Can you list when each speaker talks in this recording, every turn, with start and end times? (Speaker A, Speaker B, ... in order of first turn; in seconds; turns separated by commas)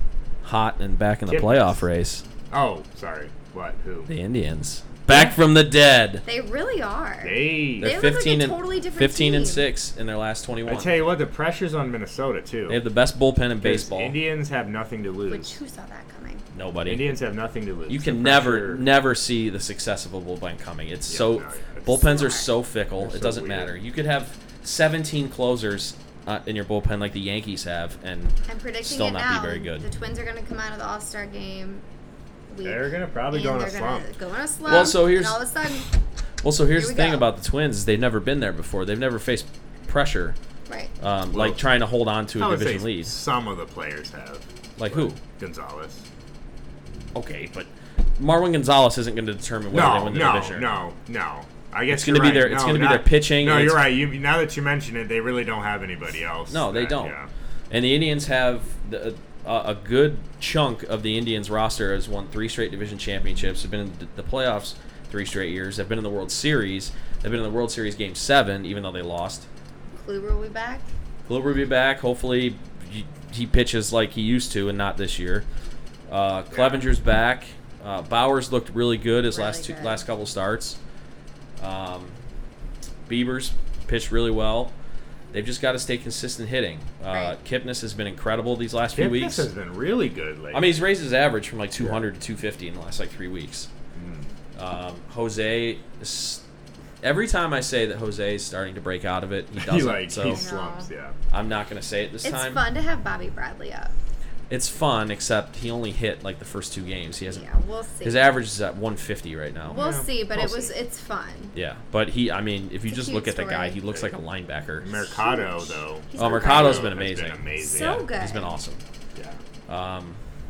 Speaker A: 0.4-2.2, Speaker B: 1.3-1.8, Speaker B: 2.5-4.1, Speaker A: 4.1-6.2, Speaker C: 6.2-9.7, Speaker B: 7.2-8.0, Speaker A: 7.8-10.9, Speaker B: 10.7-12.8, Speaker A: 12.7-14.2, Speaker B: 13.6-15.6, Speaker C: 15.3-16.4, Speaker A: 16.5-17.1, Speaker B: 16.9-18.9, Speaker A: 17.9-29.9, Speaker B: 21.1-22.0, Speaker C: 21.9-22.5, Speaker B: 23.0-23.7, Speaker C: 28.5-31.8, Speaker C: 32.5-35.9, Speaker B: 32.6-34.1, Speaker A: 34.6-35.5, Speaker A: 36.4-40.4, Speaker C: 36.7-37.3, Speaker A: 41.0-43.1, Speaker B: 41.3-41.6, Speaker B: 42.4-46.1, Speaker A: 44.8-45.2, Speaker A: 47.1-50.7, Speaker B: 49.7-57.3, Speaker A: 51.9-53.8, Speaker A: 56.5-57.1, Speaker A: 57.7-69.5, Speaker C: 69.9-70.9, Speaker A: 71.3-75.5, Speaker A: 76.1-80.8, Speaker B: 76.5-76.9, Speaker C: 79.3-80.0, Speaker A: 81.6-82.2, Speaker A: 83.1-84.7, Speaker A: 85.3-89.5, Speaker C: 87.1-87.4, Speaker B: 89.0-90.8, Speaker A: 90.5-93.7, Speaker B: 94.0-94.3, Speaker A: 94.5-96.4, Speaker A: 97.0-100.4, Speaker B: 99.6-101.2, Speaker C: 100.3-100.9, Speaker A: 101.3-102.6, Speaker C: 102.2-103.9, Speaker A: 104.5-107.5, Speaker C: 107.3-108.3, Speaker A: 108.0-109.8, Speaker B: 109.7-110.7, Speaker C: 109.7-111.5, Speaker A: 111.5-115.0, Speaker C: 112.9-113.8, Speaker B: 114.8-118.1, Speaker C: 115.2-116.9, Speaker A: 116.2-118.8, Speaker C: 117.6-118.5, Speaker B: 119.2-119.4, Speaker A: 119.7-120.2